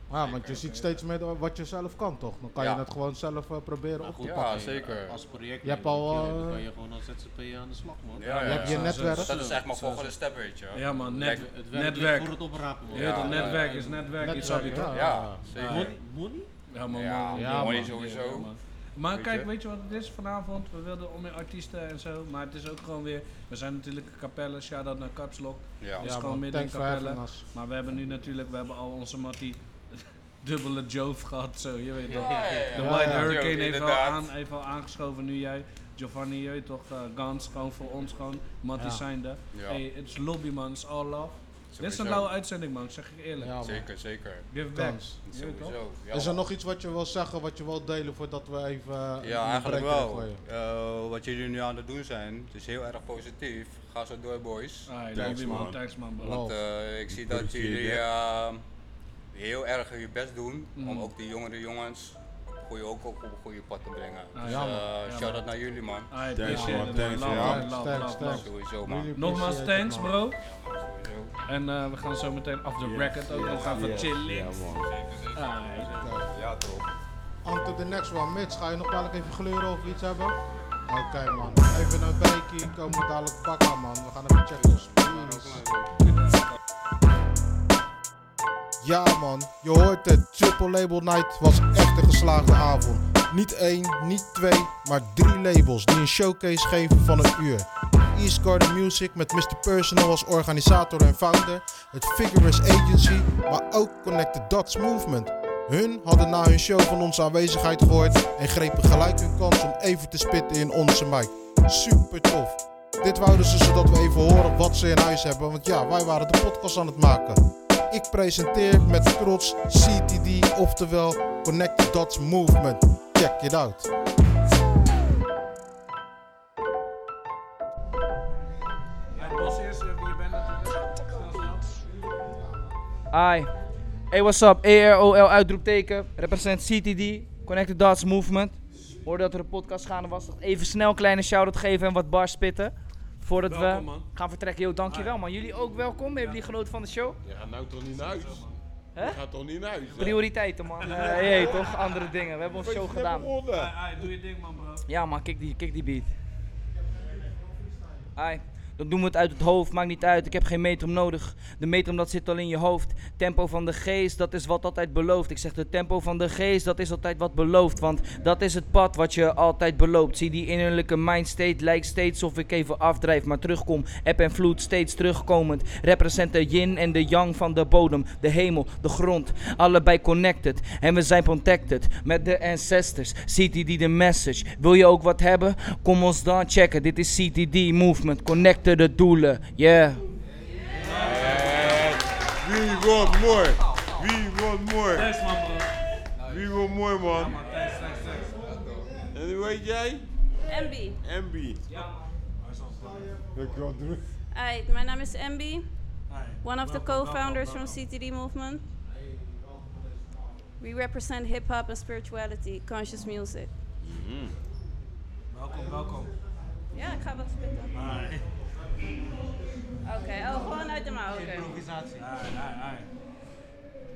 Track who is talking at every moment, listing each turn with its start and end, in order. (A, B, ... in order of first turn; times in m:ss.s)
0:00.1-0:04.5 A
0:00.2-0:00.6 B
0:00.5-0:00.9 C
0:02.6-0:02.8 B
0:04.0-0:08.6 D
0:04.2-0:05.2 B
0:05.6-0:06.6 A
0:08.2-0:11.5 B
0:08.4-0:09.4 A
0:08.6-0:10.1 C
0:09.3-0:09.5 D
0:10.7-0:12.4 C
0:11.2-0:14.9 D
0:12.9-0:15.0 C
0:12.9-0:13.7 B
0:14.2-0:15.4 A
0:14.9-0:16.0 B
0:15.6-0:16.5 D
0:15.6-0:15.9 C
0:16.7-0:43.6 C
0:16.9-0:18.5 B
0:17.3-0:17.9 A
0:19.1-0:19.5 B
0:25.8-0:26.1 B
0:26.0-0:27.4 A
0:32.1-0:34.3 B
0:32.1-0:32.6 D
0:32.8-0:33.4 A
0:38.8-0:39.0 A
0:39.5-0:39.8 B
0:41.7-0:42.3 B
0:43.4-0:43.9 A
0:43.6-0:44.5 B
0:44.5-0:45.8 C
0:44.7-0:45.2 A
0:45.3-0:46.4 B
0:46.1-0:50.4 A
0:49.2-0:55.6 B
0:54.9-0:56.4 C
0:55.1-0:55.8 E
0:56.2-0:58.6 B
0:56.2-0:56.6 A
0:57.1-0:58.0 E
0:59.3-1:06.1 B
1:00.8-1:01.1 C
1:04.4-1:05.4 C
1:04.4-1:04.9 A
1:06.1-1:08.4 C
1:06.4-1:07.9 E
1:06.4-1:10.1 A
1:08.2-1:09.1 B
1:09.2-1:10.4 C
1:10.4-1:11.3 B
1:11.5-1:14.6 C
1:12.8-1:14.9 E
1:13.7-1:14.1 B
1:14.9-1:16.8 B
1:15.4-1:15.9 C
1:16.0-1:16.3 A
1:17.4-1:20.4 A
1:20.9-1:25.6 A
1:24.5-1:25.9 D
1:28.8-2:03.9 A
2:09.2-2:11.7 C
2:13.1-2:13.5 F
2:14.1-2:27.2 F
2:23.5-2:24.1 C
2:24.9-2:25.2 C
2:26.2-2:26.4 C
2:27.2-2:34.1 E
2:28.0-2:28.5 C
2:29.0-2:29.2 F
2:30.0-2:33.3 F
2:30.8-2:31.5 C
2:33.5-2:34.8 C
2:34.9-2:36.1 F
2:38.2-3:10.0 F
3:10.8-3:12.0 C
3:11.1-3:11.9 B
3:11.1-3:15.2 E
3:14.9-3:15.7 C
3:16.2-3:17.4 E
3:17.1-3:18.4 C
3:18.4-3:18.8 B
3:19.1-3:20.1 E
3:20.5-3:21.0 G
3:21.0-3:21.6 E
3:21.7-3:23.1 C
3:23.0-3:23.6 A
3:23.3-3:24.0 E
3:24.3-3:25.6 G
3:26.1-3:27.8 C
3:26.4-3:28.6 G
3:29.1-3:29.8 A
3:30.6-3:33.5 G
3:33.8-3:34.4 E
3:35.3-3:36.1 C
3:36.7-3:37.9 G
3:37.8-3:38.2 C
3:39.8-3:41.6 G
3:41.1-3:42.1 D
3:42.0-3:42.9 C